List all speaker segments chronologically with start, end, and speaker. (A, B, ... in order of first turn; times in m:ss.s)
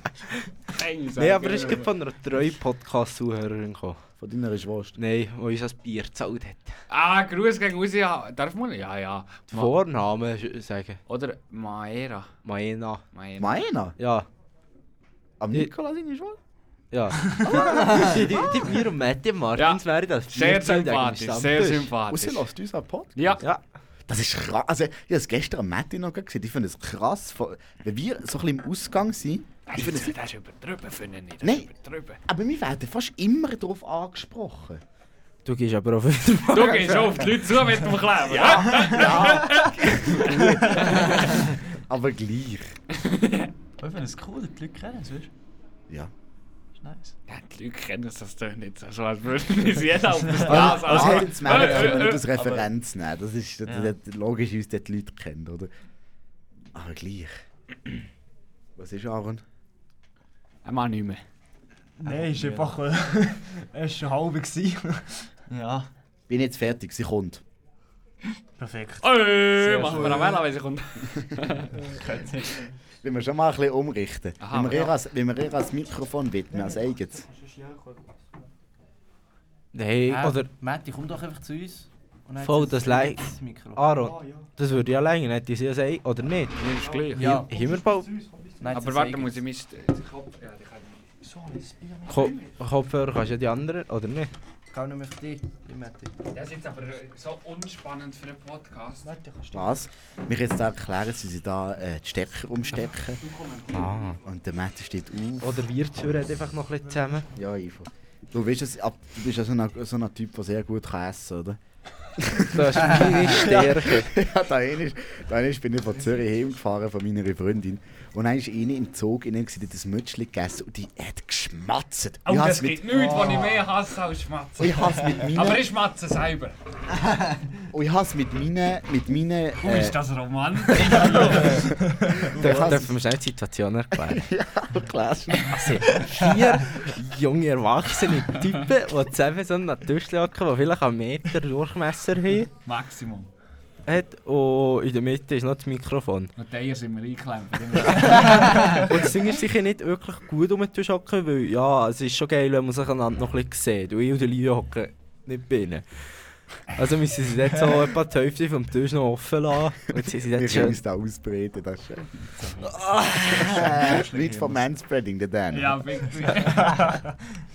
0:00.7-0:01.9 A
0:01.2-0:04.0 B
0:04.2-0:05.0 C
0:05.0-0:06.7 B
0:06.9-0:09.8 A
0:09.5-0:11.0 B
0:11.1-0:12.3 A
0:12.4-0:13.0 B
0:13.1-0:13.6 A
0:13.4-0:14.0 C
0:14.0-0:14.3 B
0:15.4-0:16.4 C
0:16.9-0:21.9 B
0:17.4-0:18.5 C
0:19.6-0:22.4 A
0:22.1-0:23.4 C
0:23.2-0:23.4 A
0:24.1-0:30.2 C
0:29.7-0:32.2 A
0:31.4-0:31.7 C
0:32.2-0:34.8 C
0:35.4-0:37.3 B
0:36.5-0:41.1 A
0:36.6-0:37.2 C
0:38.2-0:42.8 C
0:43.0-0:43.5 A
0:43.8-0:45.3 D
0:46.8-0:47.2 D
0:47.3-0:52.6 A
0:50.4-0:55.7 C
0:50.5-0:52.1 D
0:53.7-0:53.9 D
0:56.7-0:58.0 C
0:58.8-0:59.4 C
1:00.6-1:01.2 A
1:02.0-1:05.3 E
1:02.0-1:02.8 D
1:05.5-1:05.9 D
1:06.3-1:07.4 C
1:08.6-1:09.1 E
1:09.0-1:11.7 A
1:09.6-1:10.1 E
1:09.7-1:10.4 D
1:11.9-1:12.7 D
1:13.0-1:17.2 C
1:14.4-1:14.9 A
1:16.6-1:18.1 E
1:19.7-1:20.5 B
1:20.1-1:23.9 F
1:22.4-1:26.6 B
1:26.6-1:27.3 A
1:27.1-1:27.5 F
1:27.3-1:28.2 B
1:27.7-1:28.4 E
1:28.6-1:29.4 F
1:28.7-1:31.1 A
1:32.1-1:34.3 B
1:34.7-1:36.1 F
1:36.3-1:39.1 A
1:39.1-1:39.4 F
1:39.5-1:43.2 C
1:43.2-1:44.2 A
1:43.7-1:44.2 B
1:44.2-1:45.6 C
1:45.4-1:47.3 B
1:47.4-1:51.6 C
1:52.2-2:03.1 C
1:52.5-1:54.1 B
2:02.3-2:06.6 A
2:03.1-2:03.4 D
2:04.6-2:05.7 C
2:07.7-2:10.0 C
2:09.6-2:11.6 A
2:10.8-2:12.9 D
2:11.4-2:12.9 C
2:12.4-2:14.3 B
2:14.1-2:16.0 C
2:15.4-2:22.5 B
2:22.7-2:23.3 A
2:23.9-2:26.3 B
2:26.4-2:28.8 A
2:28.0-2:40.8 B
2:40.0-2:45.8 C
2:42.4-2:42.8 A
2:43.2-2:44.6 D
2:45.5-2:47.0 A